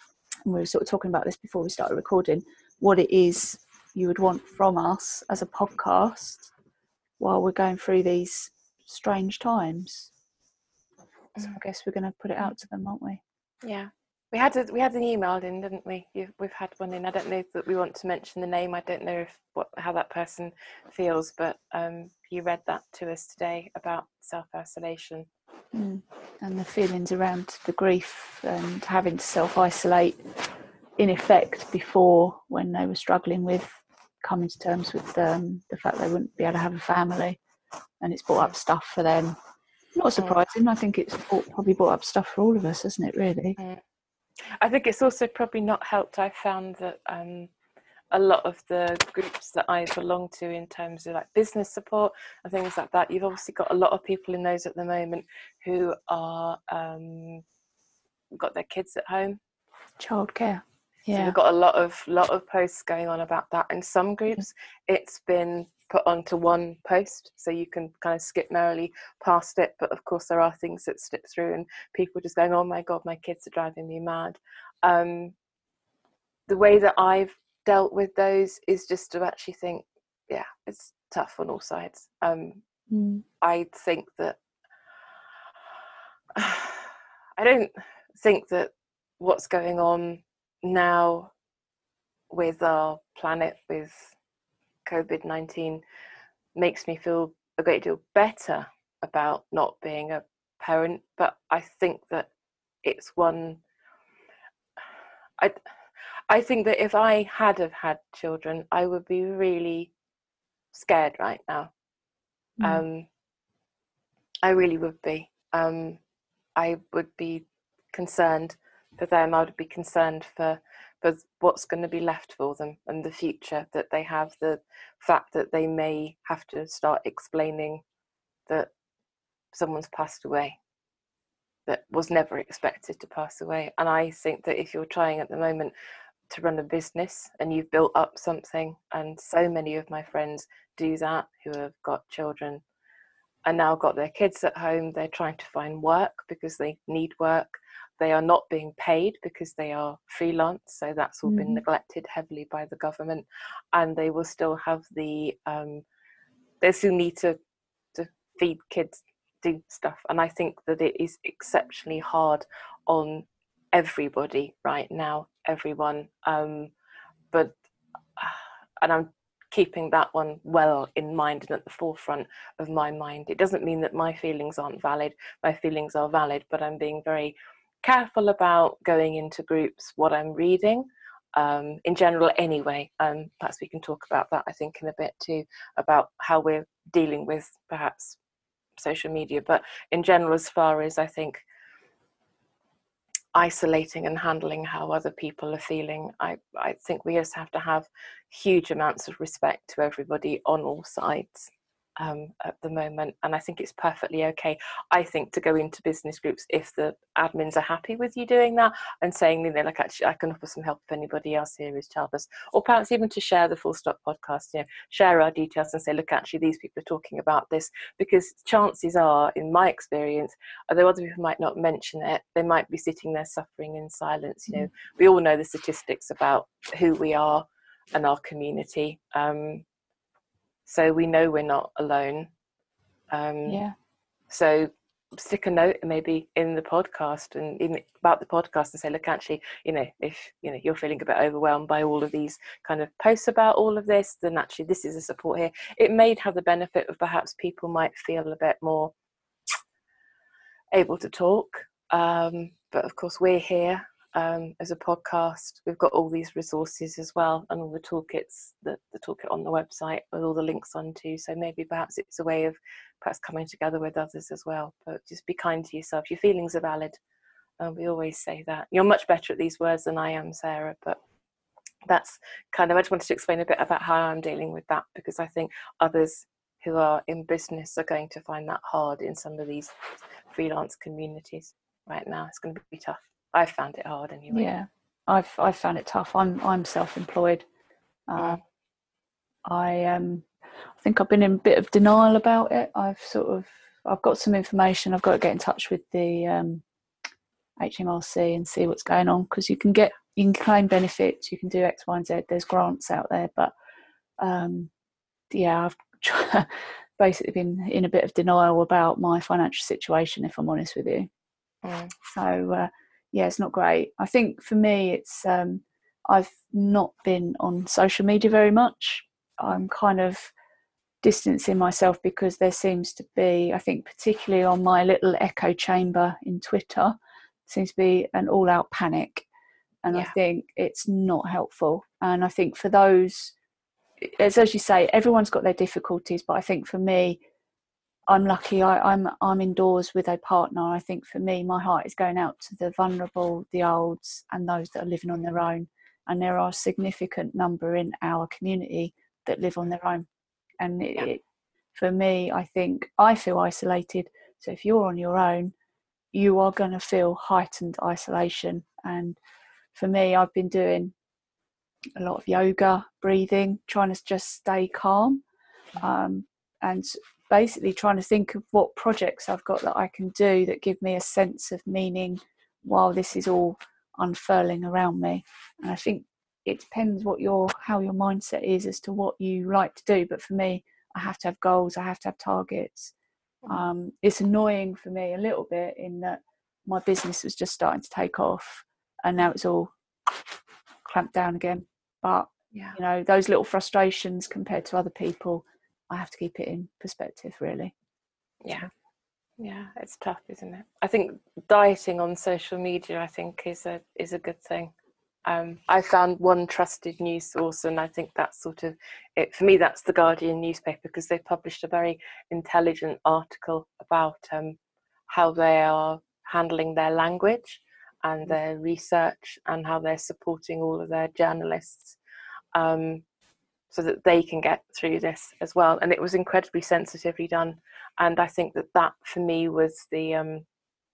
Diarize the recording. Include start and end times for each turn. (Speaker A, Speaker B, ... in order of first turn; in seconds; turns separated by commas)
Speaker A: 0.5-6.5, Speaker A: 7.2-10.1, Speaker A: 11.4-13.2, Speaker B: 13.6-25.3, Speaker A: 25.7-30.2, Speaker A: 31.0-37.4, Speaker A: 38.0-39.4, Speaker A: 40.0-43.6, Speaker B: 44.6-47.5, Speaker B: 48.1-57.4, Speaker B: 58.3-59.4, Speaker A: 60.0-61.4, Speaker B: 61.1-75.3, Speaker B: 76.5-82.6, Speaker A: 82.9-83.2, Speaker B: 83.4-84.4, Speaker B: 86.3-91.3, Speaker B: 92.3-94.1, Speaker B: 94.8-95.8, Speaker B: 96.5-102.3, Speaker B: 102.8-103.6, Speaker B: 106.3-109.9, Speaker B: 110.7-111.7, Speaker B: 112.6-113.1, Speaker B: 114.4-116.0, Speaker B: 116.6-127.8, Speaker B: 129.5-130.6, Speaker B: 131.7-135.7, Speaker B: 136.3-142.6, Speaker B: 143.4-155.8, Speaker A: 151.3-151.6, Speaker B: 156.6-157.4, Speaker B: 157.9-166.7, Speaker B: 168.2-188.2, Speaker B: 188.8-191.4, Speaker B: 193.3-229.6, Speaker B: 230.7-232.3, Speaker B: 233.1-233.6, Speaker A: 233.5-233.8, Speaker B: 234.3-248.9, Speaker B: 250.7-267.0, Speaker B: 267.6-271.0, Speaker B: 271.9-279.7, Speaker B: 280.3-284.6, Speaker A: 284.3-287.4, Speaker A: 288.1-288.4, Speaker A: 289.5-290.3, Speaker A: 290.8-296.6, Speaker A: 297.6-303.5, Speaker A: 304.2-304.7, Speaker A: 305.3-311.1, Speaker B: 311.6-311.9, Speaker A: 312.1-320.3, Speaker A: 321.0-327.0, Speaker A: 327.5-329.3, Speaker A: 329.8-333.3, Speaker A: 334.0-337.2, Speaker A: 338.1-350.1, Speaker A: 350.6-351.2, Speaker A: 351.8-355.5, Speaker A: 356.1-359.2, Speaker A: 359.7-360.9, Speaker A: 362.0-365.2, Speaker A: 365.8-382.9, Speaker A: 383.5-389.7, Speaker A: 390.9-397.7, Speaker B: 399.4-404.7, Speaker B: 405.2-414.6, Speaker B: 415.1-422.0, Speaker B: 422.5-423.0, Speaker B: 423.7-430.4